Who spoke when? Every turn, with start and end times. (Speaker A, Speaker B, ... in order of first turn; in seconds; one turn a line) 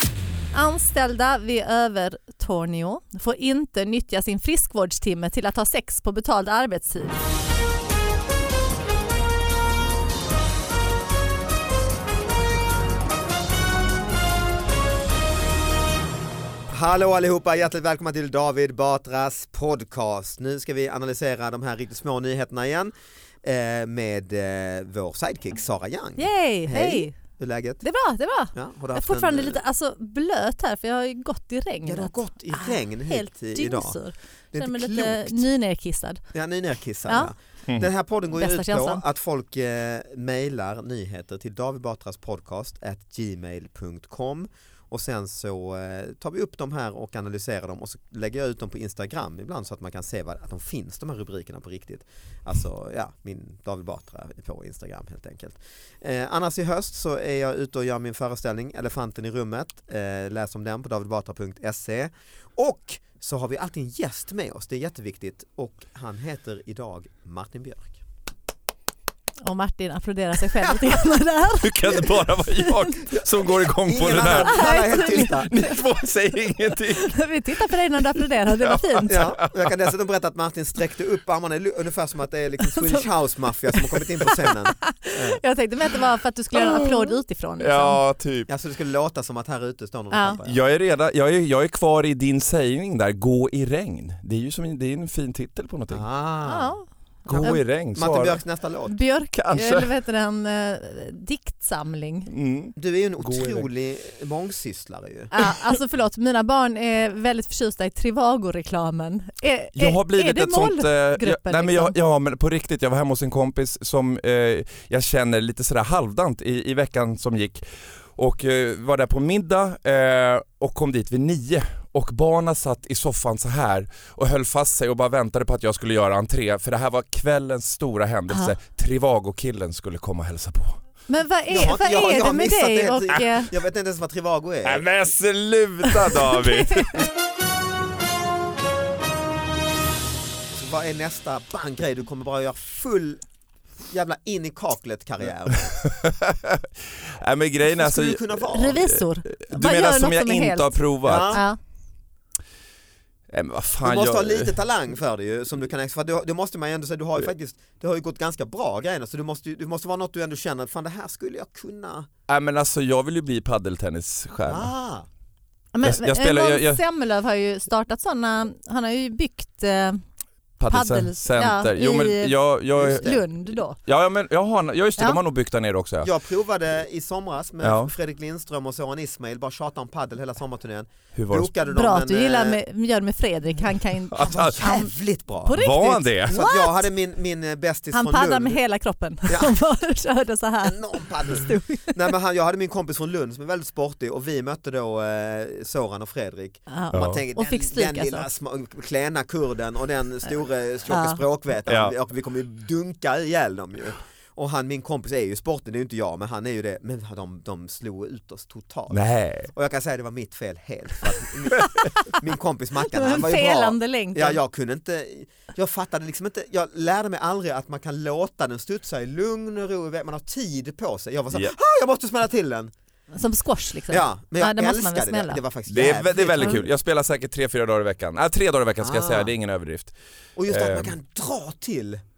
Speaker A: 0.5-7.2
Speaker B: 16.7-27.8
Speaker A: 26.2-27.2
Speaker A: 27.8-36.2
Speaker B: 28.5-29.6
Speaker B: 31.9-34.0
Speaker B: 34.5-35.4
Speaker B: 36.3-68.0
Speaker A: 37.1-37.3
Speaker A: 38.3-39.0
Speaker A: 69.4-72.9
Speaker C: 71.6-77.3
Speaker B: 73.8-75.5
Speaker A: 74.3-75.7
Speaker A: 77.0-79.2
Speaker C: 78.1-79.7
Speaker B: 79.1-85.4
Speaker A: 82.8-83.0
Speaker A: 84.3-88.0
Speaker C: 87.6-88.5
Speaker B: 88.5-90.6
Speaker A: 90.1-90.4
Speaker C: 90.4-96.1
Speaker B: 95.9-96.8
Speaker A: 96.5-96.8
Speaker C: 97.2-98.4
Speaker B: 97.3-99.0
Speaker A: 98.9-102.3
Speaker C: 99.3-99.9
Speaker C: 102.3-103.7
Speaker B: 102.8-105.3
Speaker A: 105.3-112.0
Speaker C: 109.8-117.7
Speaker C: 118.2-130.8
Speaker A: 128.3-128.6
Speaker A: 131.1-133.5
Speaker B: 131.5-134.8
Speaker C: 134.6-137.0
Speaker A: 135.9-137.0
Speaker B: 140.5-143.2
Speaker B: 143.9-145.7
Speaker C: 145.7-151.4
Speaker B: 147.6-148.8
Speaker A: 148.5-151.6
Speaker B: 151.0-151.4
Speaker C: 153.3-154.5
Speaker B: 153.8-162.1
Speaker C: 162.3-164.7
Speaker B: 164.5-165.1
Speaker A: 165.7-170.0
Speaker C: 165.8-166.8
Speaker C: 170.6-173.3
Speaker A: 170.7-173.8
Speaker B: 172.8-173.2
Speaker C: 173.8-176.1
Speaker B: 176.0-182.6
Speaker C: 177.6-177.9
Speaker C: 181.1-181.5
Speaker A: 181.7-184.9
Speaker C: 184.1-184.8
Speaker B: 184.2-185.6
Speaker A: 185.4-186.9
Speaker C: 185.5-186.3
Speaker B: 186.3-188.6
Speaker A: 187.9-192.0
Speaker B: 189.3-189.6
Speaker B: 190.6-222.7
Speaker A: 196.7-198.3
Speaker C: 196.9-197.2
Speaker A: 200.9-201.2
Speaker C: 201.7-201.9
Speaker C: 208.9-209.5
Speaker A: 212.9-214.4
Speaker A: 223.1-225.4
Speaker B: 223.9-226.7
Speaker C: 225.7-229.9
Speaker B: 228.8-229.3
Speaker B: 230.4-232.0
Speaker C: 230.5-230.9